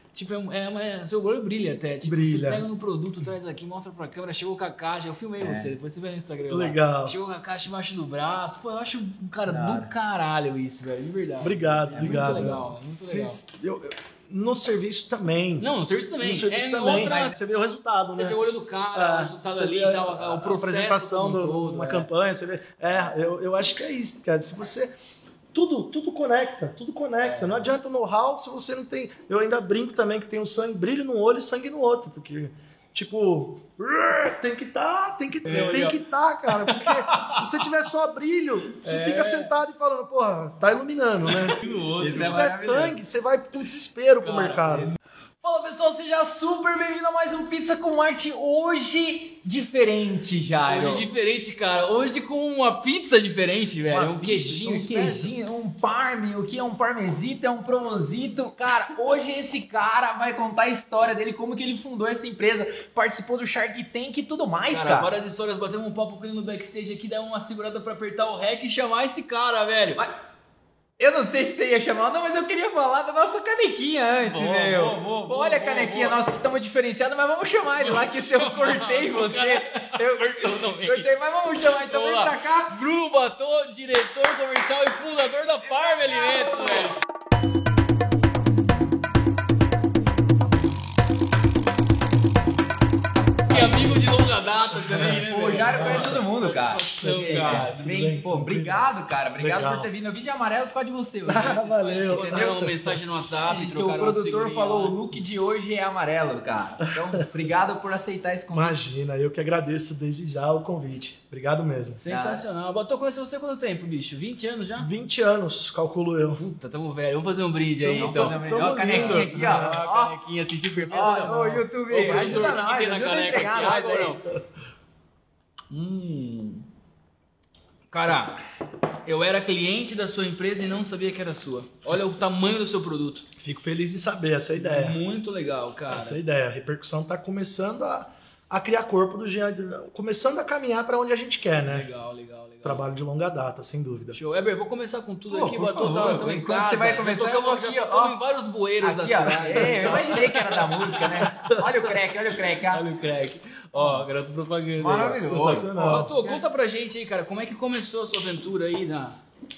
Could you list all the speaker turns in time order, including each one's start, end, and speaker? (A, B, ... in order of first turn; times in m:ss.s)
0:00.1-0:13.4 A
0:02.0-0:02.6 B
0:05.4-0:05.7 C
0:06.5-0:07.2 B
0:09.5-0:09.9 C
0:11.4-0:15.7 B
0:12.0-0:12.7 C
0:15.6-0:17.3 A
0:16.2-0:18.4 B
0:16.9-0:17.4 C
0:18.2-0:22.1 A
0:18.9-0:24.9 B
0:25.5-0:44.9 B
0:27.2-0:27.7 A
0:35.4-0:36.0 A
0:36.6-0:37.4 A
0:38.8-0:39.5 A
0:41.3-0:42.6 A
0:42.0-0:43.0 C
0:44.2-0:45.0 A
0:45.4-0:51.1 C
0:50.7-0:55.3 A
0:53.9-1:05.1 C
1:04.7-1:10.1 A
1:11.0-1:22.8 C
1:14.2-1:16.2 A
1:17.8-1:21.1 A
1:21.7-1:27.0 A
1:25.7-1:26.9 C
1:33.5-1:37.7 A
1:35.3-1:42.7 C
1:35.7-1:36.2 B
1:37.0-1:39.9 B
1:41.3-1:42.7 B
1:42.0-1:45.0 A
1:43.4-1:48.8 C
1:48.5-1:52.0 B
1:52.0-1:54.9 A
1:52.1-1:52.4 C
1:54.8-1:56.4 B
1:56.4-2:04.2 A
1:57.8-2:00.1 C
1:58.0-1:59.8 B
2:00.8-2:04.2 C
2:00.9-2:01.6 B
2:05.7-2:06.5 C
2:05.8-2:06.5 A
2:07.9-2:08.4 A
2:09.0-2:13.3 A
2:13.4-2:15.0 B
2:14.6-2:16.2 A
2:15.9-2:21.9 B
2:21.6-2:22.8 A
2:22.6-2:24.2 B
2:24.1-2:31.3 A
2:25.3-2:28.2 C
2:28.8-2:32.9 C
2:31.4-2:31.6 B
2:32.7-2:39.2 A
2:33.8-2:34.0 C
2:34.8-2:36.4 C
2:34.9-2:36.1 B